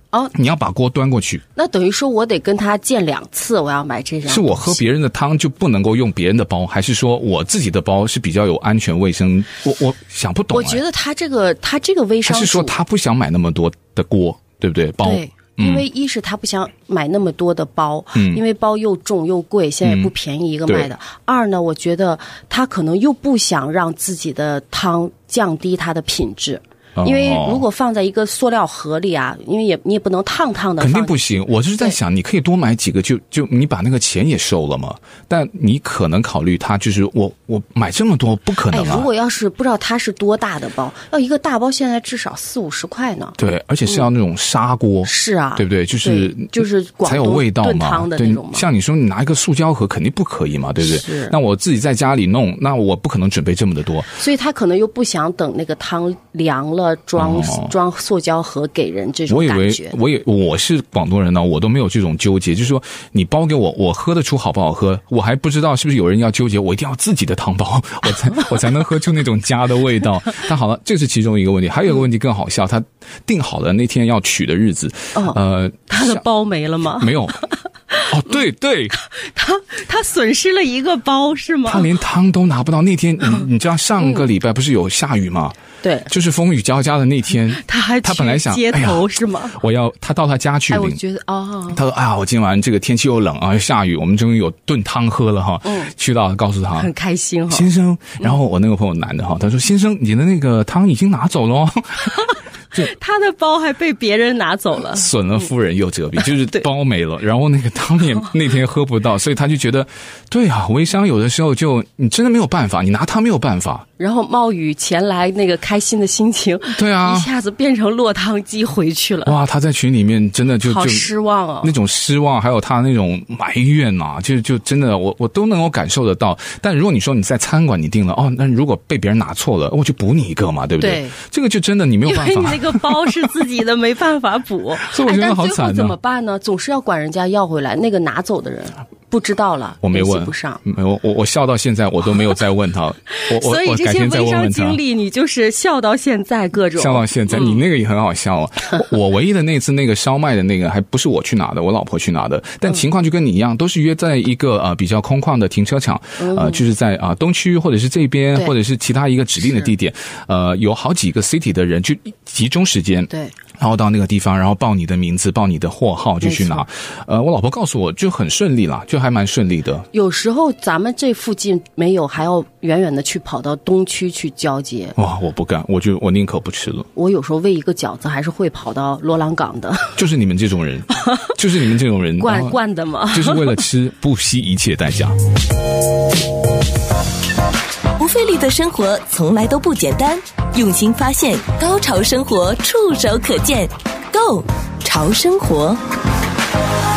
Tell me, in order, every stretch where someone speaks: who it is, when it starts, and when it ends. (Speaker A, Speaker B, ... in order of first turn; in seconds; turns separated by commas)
Speaker A: 0.3-1.4, Speaker B: 1.6-4.8, Speaker A: 4.2-10.8, Speaker B: 10.5-12.8, Speaker A: 12.2-15.8, Speaker B: 15.0-32.0, Speaker A: 18.1-18.4, Speaker A: 19.8-20.1, Speaker A: 27.0-27.6, Speaker A: 30.8-39.1, Speaker B: 38.7-43.4, Speaker A: 43.4-54.2, Speaker B: 45.0-48.6, Speaker B: 50.8-51.3, Speaker B: 54.2-60.0, Speaker A: 57.2-57.7, Speaker A: 59.3-76.2, Speaker B: 75.1-78.1, Speaker A: 77.0-77.4, Speaker A: 78.1-79.0, Speaker B: 78.9-81.9, Speaker A: 81.7-85.6, Speaker B: 85.8-86.1, Speaker A: 86.1-91.0, Speaker B: 87.5-89.6, Speaker B: 90.7-91.8, Speaker A: 91.7-96.9, Speaker B: 95.6-95.9, Speaker B: 96.7-97.7, Speaker A: 97.5-102.9, Speaker B: 102.7-105.1, Speaker A: 104.9-113.8, Speaker B: 114.0-119.4, Speaker A: 116.7-117.3, Speaker A: 119.2-121.1, Speaker B: 120.6-121.7, Speaker A: 121.6-133.3, Speaker B: 130.8-131.2, Speaker B: 132.0-140.6, Speaker A: 134.8-135.9, Speaker A: 139.8-144.8, Speaker B: 143.1-147.6, Speaker A: 146.7-169.9, Speaker B: 156.2-156.6, Speaker B: 166.2-166.6, Speaker B: 169.9-174.9, Speaker A: 174.9-176.9, Speaker B: 176.9-180.0, Speaker A: 179.9-182.6, Speaker B: 180.9-181.3, Speaker B: 182.2-183.6, Speaker A: 183.1-185.2, Speaker C: 188.0-195.8